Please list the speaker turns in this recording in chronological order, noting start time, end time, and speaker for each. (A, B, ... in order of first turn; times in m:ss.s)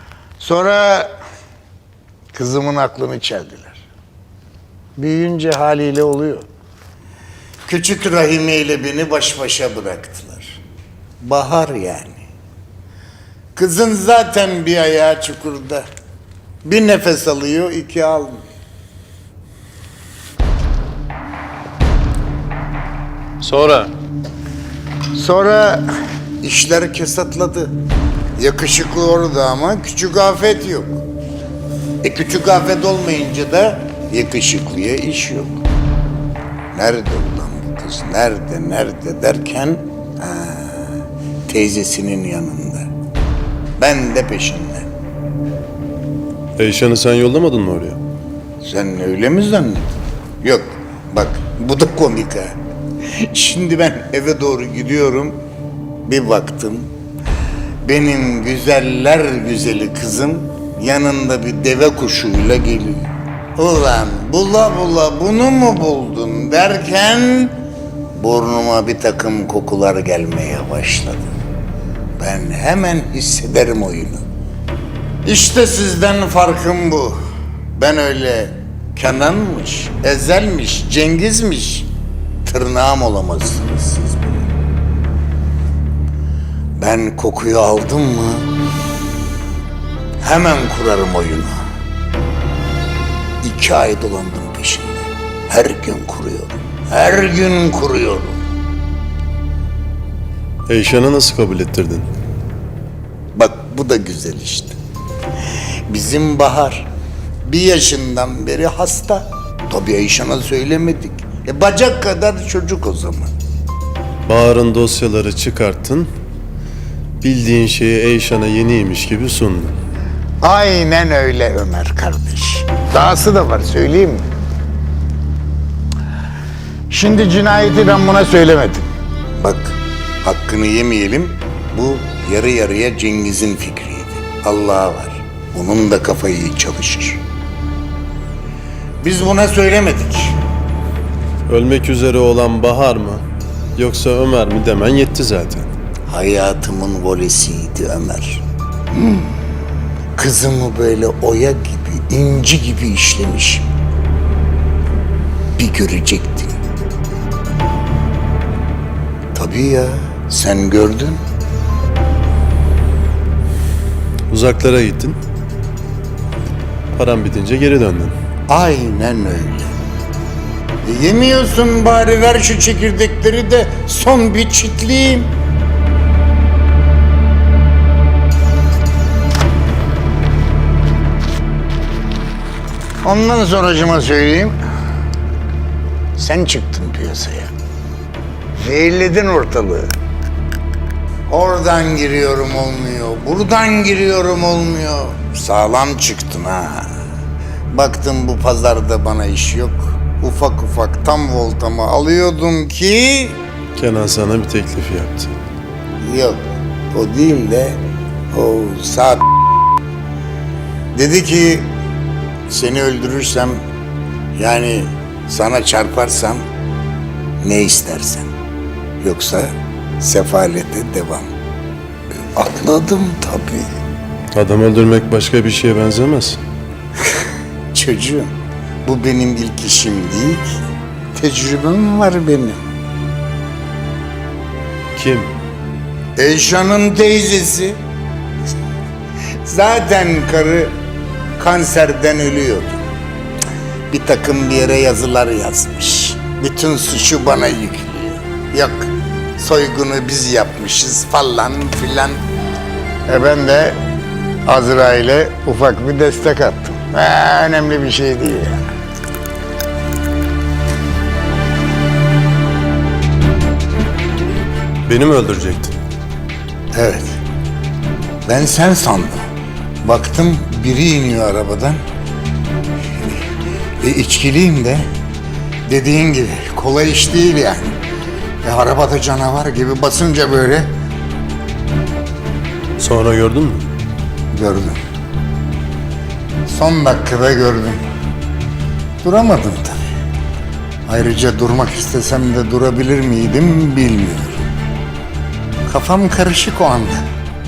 0:00.4-0:01.1 A
0:02.3-0:03.8 A
0:05.0-0:06.5 A
0:07.7-0:10.6 A
0:11.2-0:12.2 A
0:13.6-0:15.8 A
0:16.6-0:18.4 A
0:23.4-0:23.9 B
0:25.1-0:25.9 A
0:26.4-0:27.7 A
0:28.4-0:31.0 A
0:32.0-0:35.6 A
0:36.7-0:42.9 A
0:43.8-0:44.9 A
0:46.6-0:48.0 B
0:48.6-0:49.9 A
0:50.4-0:52.5 A
0:53.2-0:55.4 A
0:56.0-0:56.9 A
0:57.8-1:07.6 A
1:08.2-1:11.3 A
1:12.2-1:14.2 A
1:15.2-1:17.2 A
1:17.8-1:21.9 A
1:22.4-1:24.5 A
1:26.8-1:28.5 A
1:30.2-1:31.6 A
1:33.4-1:38.4 A
1:40.7-1:42.1 B
1:43.3-1:44.8 A
1:45.9-1:46.9 A
1:47.4-1:53.3 A
1:54.2-1:56.1 B
1:57.2-1:59.8 B
2:00.4-2:04.2 A
2:06.9-2:08.9 A
2:09.4-2:17.2 A
2:19.0-2:20.4 A
2:21.5-2:23.2 B
2:23.8-2:25.7 B
2:26.1-2:29.3 A
2:30.2-2:33.7 A
2:35.6-2:36.6 A
2:39.3-2:41.2 A
2:44.3-2:45.2 B
2:46.9-2:48.1 B
2:48.5-2:49.7 A
2:50.8-2:55.3 A
3:03.0-3:04.6 A
3:06.2-3:07.5 A
3:08.6-3:09.9 A
3:11.3-3:16.9 A
3:17.7-3:23.4 A
3:23.8-3:25.3 B
3:26.0-3:29.2 A
3:30.9-3:31.7 A
3:32.5-3:33.6 A
3:34.4-3:36.4 A
3:37.4-3:38.3 A
3:39.0-3:41.3 A
3:42.4-3:43.7 A
3:44.4-3:46.4 B
3:47.7-3:48.3 A
3:48.8-3:50.6 A
3:51.1-3:52.6 A
3:54.9-3:55.3 B
3:56.2-3:57.8 A
3:59.4-4:00.7 A
4:01.4-4:02.8 A
4:03.9-4:12.2 A
4:13.1-4:13.8 A
4:14.4-4:18.6 A
4:24.9-4:25.8 B
4:26.7-4:27.2 A
4:28.2-4:29.2 A
4:29.8-4:31.8 A
4:33.8-4:34.8 A
4:35.7-4:37.8 A
4:38.4-4:40.7 A
4:42.8-4:43.7 B
4:44.3-4:44.8 A
4:46.5-4:47.8 A
4:49.0-4:49.9 A
4:50.9-4:54.4 A
4:55.7-4:57.0 A